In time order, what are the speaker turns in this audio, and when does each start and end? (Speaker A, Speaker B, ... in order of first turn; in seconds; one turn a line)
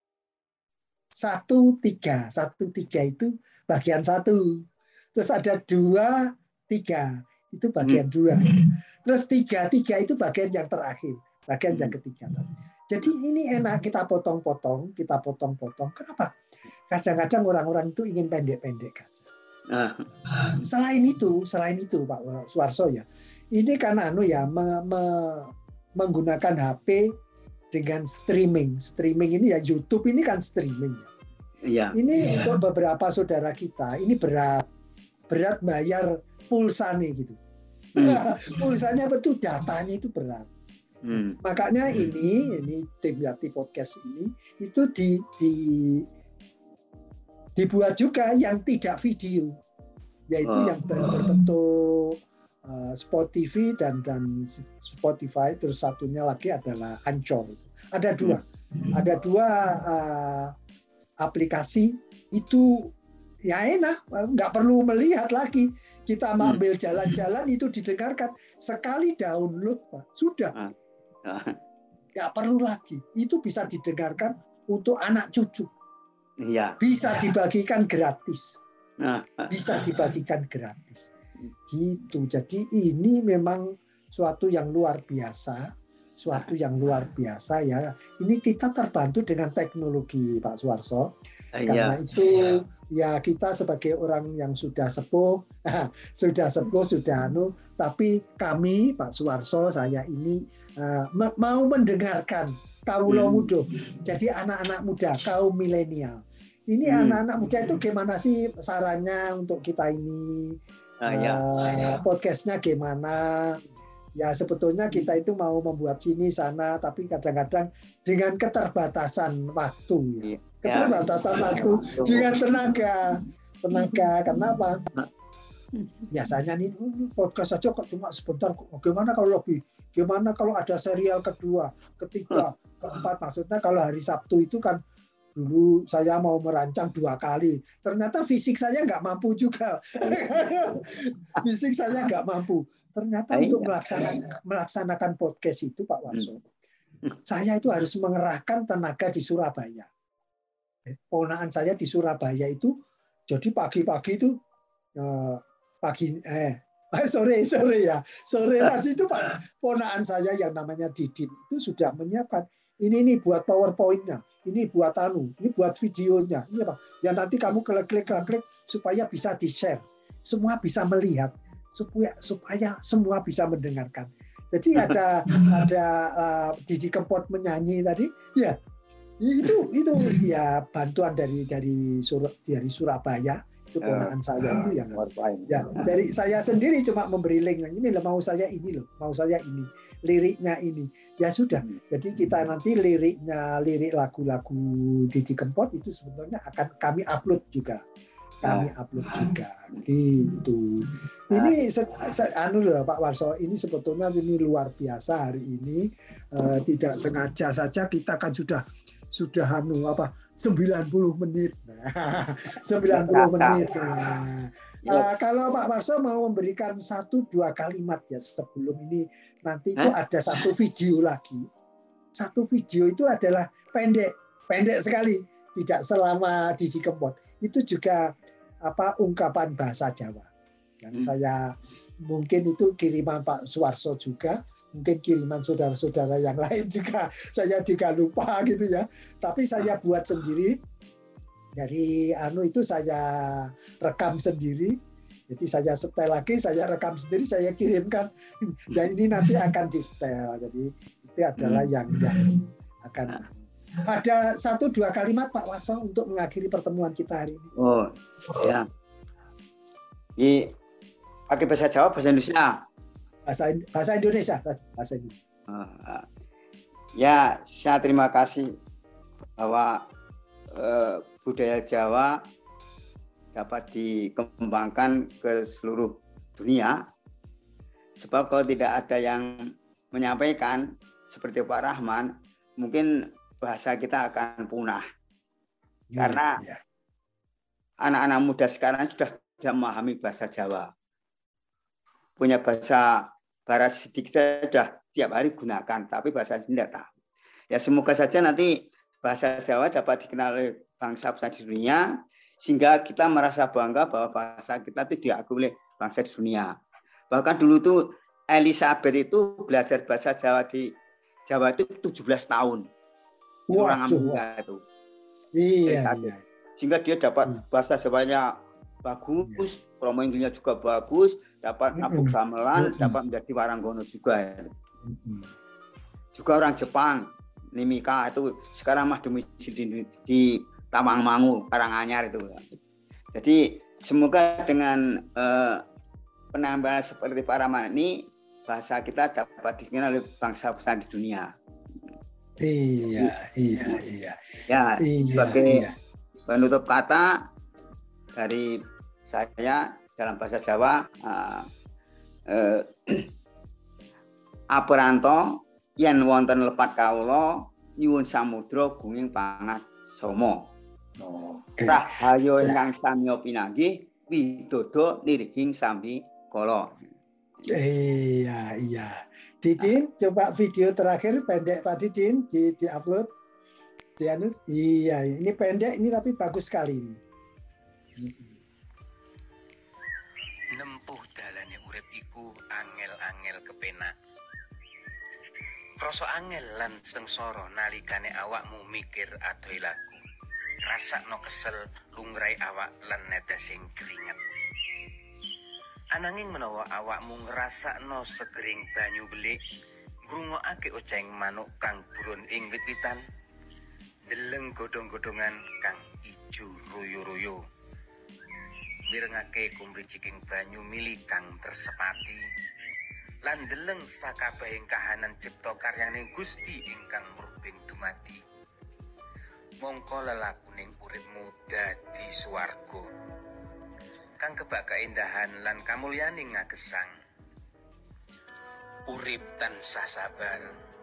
Speaker A: 1.1-16.3
Speaker B: 11.7-11.9
Speaker A: 16.9-19.3
Speaker B: 19.7-20.5
Speaker A: 20.5-27.1
Speaker A: 27.7-31.1
Speaker B: 31.6-32.4
Speaker A: 31.9-34.7
Speaker A: 35.3-37.4
Speaker B: 38.0-38.2
Speaker A: 38.0-40.5
Speaker B: 41.0-41.4
Speaker A: 41.4-46.0
Speaker A: 47.5-49.6
Speaker A: 50.3-60.5
Speaker B: 50.4-50.8
Speaker A: 61.2-62.9
Speaker A: 63.5-70.5
Speaker B: 71.2-71.6
Speaker A: 72.1-75.7
Speaker B: 76.4-76.8
Speaker A: 76.8-78.6
Speaker B: 79.0-79.5
Speaker A: 79.5-81.1
Speaker A: 81.7-91.1
Speaker B: 91.5-92.0
Speaker A: 91.7-113.6
Speaker B: 103.1-103.5
Speaker B: 106.8-107.2
Speaker B: 111.0-111.9
Speaker A: 114.2-124.9
Speaker B: 120.2-122.3
Speaker B: 125.8-126.1
Speaker A: 126.1-134.8
Speaker A: 135.3-146.4
Speaker B: 143.3-144.1
Speaker A: 147.2-149.9
Speaker A: 150.9-152.7
Speaker A: 153.3-154.4
Speaker A: 155.0-178.6
Speaker A: 179.2-197.8
Speaker B: 183.8-185.9
Speaker A: 198.4-221.5
Speaker B: 198.4-199.2
Speaker B: 201.3-201.6
Speaker B: 212.9-213.6
Speaker A: 222.1-228.1
Speaker A: 228.6-230.3
Speaker A: 230.8-231.5
Speaker A: 232.0-240.6
Speaker A: 241.6-244.8
Speaker A: 245.3-257.5
Speaker B: 251.4-251.7
Speaker B: 257.6-258.7
Speaker B: 260.2-260.5
Speaker B: 261.3-262.6
Speaker A: 263.2-265.2
Speaker B: 265.5-266.1
Speaker B: 267.0-268.5
Speaker B: 269.4-269.9
Speaker B: 270.5-272.2
Speaker B: 273.3-276.8
Speaker B: 278.0-279.4
Speaker B: 279.9-284.8
Speaker A: 285.9-286.6
Speaker B: 286.0-286.4
Speaker B: 287.8-290.7
Speaker B: 292.2-296.9
Speaker B: 297.5-301.9
Speaker B: 302.4-306.6
Speaker B: 307.1-310.7
Speaker B: 311.3-312.6
Speaker A: 313.5-314.2
Speaker B: 313.5-314.6
Speaker A: 315.3-316.2
Speaker B: 315.6-318.3
Speaker B: 318.8-324.5
Speaker A: 321.8-323.0
Speaker A: 324.9-325.3
Speaker B: 326.1-332.5
Speaker B: 333.1-335.6
Speaker B: 336.3-341.3
Speaker A: 342.4-344.2
Speaker B: 344.5-345.6
Speaker A: 344.8-345.7
Speaker B: 346.3-347.2
Speaker B: 348.1-351.5
Speaker B: 352.3-353.1
Speaker B: 354.5-360.5
Speaker A: 361.0-361.8
Speaker B: 361.6-366.8
Speaker A: 367.5-373.1
Speaker A: 374.0-377.0
Speaker A: 378.0-378.2
Speaker C: 380.5-383.9
Speaker C: 385.8-390.0
Speaker C: 390.6-394.3
Speaker C: 395.9-399.4
Speaker C: 400.1-403.0
Speaker C: 404.1-407.4
Speaker C: 408.9-412.2
Speaker C: 413.2-418.2
Speaker C: 419.6-422.9
Speaker C: 424.2-426.9
Speaker C: 428.8-430.6